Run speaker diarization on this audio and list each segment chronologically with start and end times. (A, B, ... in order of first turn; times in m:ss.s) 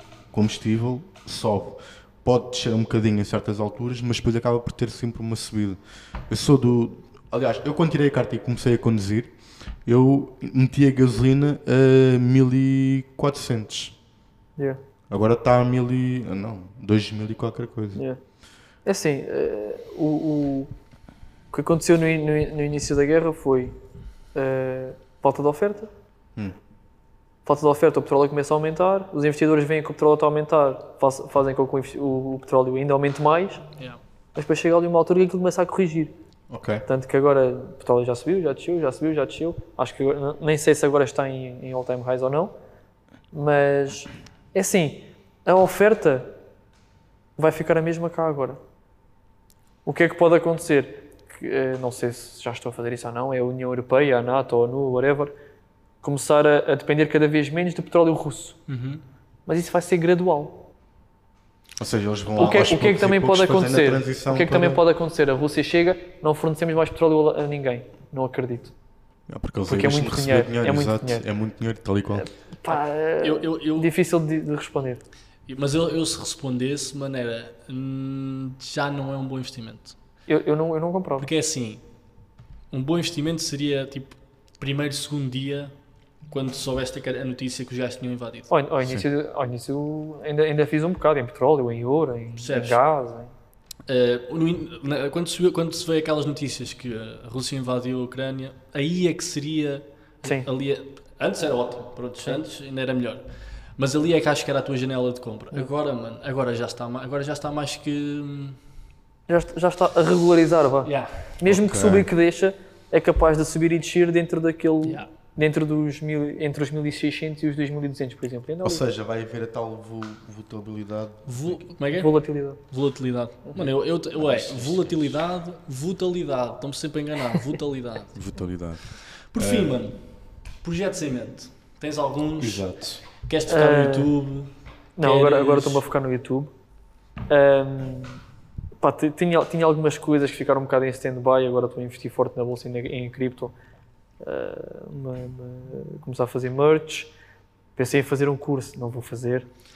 0:00.3-0:05.8 A
0:06.3-0:09.3 A
0:09.8-0:14.0 A
0:15.1-0:18.0 A
0:18.8-0:20.7 B
0:21.5-0:23.8 B
0:24.3-0:25.9 B
0:27.4-0:33.6 B
0:34.3-0:36.1 B
0:36.5-0:36.8 A
0:36.8-0:42.5 B
0:43.3-0:46.3 B
0:47.4-0:48.6 B
0:49.8-0:55.3 B
0:56.0-0:58.6 B
0:58.7-0:59.0 C
0:59.5-1:00.7 B
1:01.8-1:04.8 A
1:02.4-1:08.7 B
1:09.3-1:12.3 A
1:09.6-1:11.2 B
1:12.2-1:15.0 B
1:13.2-1:13.9 C
1:15.5-1:19.9 C
1:20.3-1:21.3 B
1:21.2-1:21.8 C
1:22.7-1:25.7 C
1:26.3-1:28.5 C
1:28.5-1:33.3 B
1:32.4-1:32.8 C
1:33.9-1:43.2 C
1:40.2-1:40.5 B
1:43.8-1:48.6 C
1:49.3-1:58.8 B
1:50.8-1:51.1 C
1:51.4-1:52.1 A
1:54.8-1:55.1 C
1:58.6-2:01.6 A
2:01.3-2:08.2 C
2:01.9-2:02.6 B
2:03.6-2:05.2 A
2:08.1-2:09.8 A
2:08.9-2:10.0 C
2:10.5-2:15.8 C
2:12.4-2:13.0 A
2:13.5-2:14.1 B
2:15.0-2:16.5 B
2:17.3-2:18.2 B
2:18.8-2:23.5 B
2:24.2-2:27.1 B
2:27.8-2:29.5 B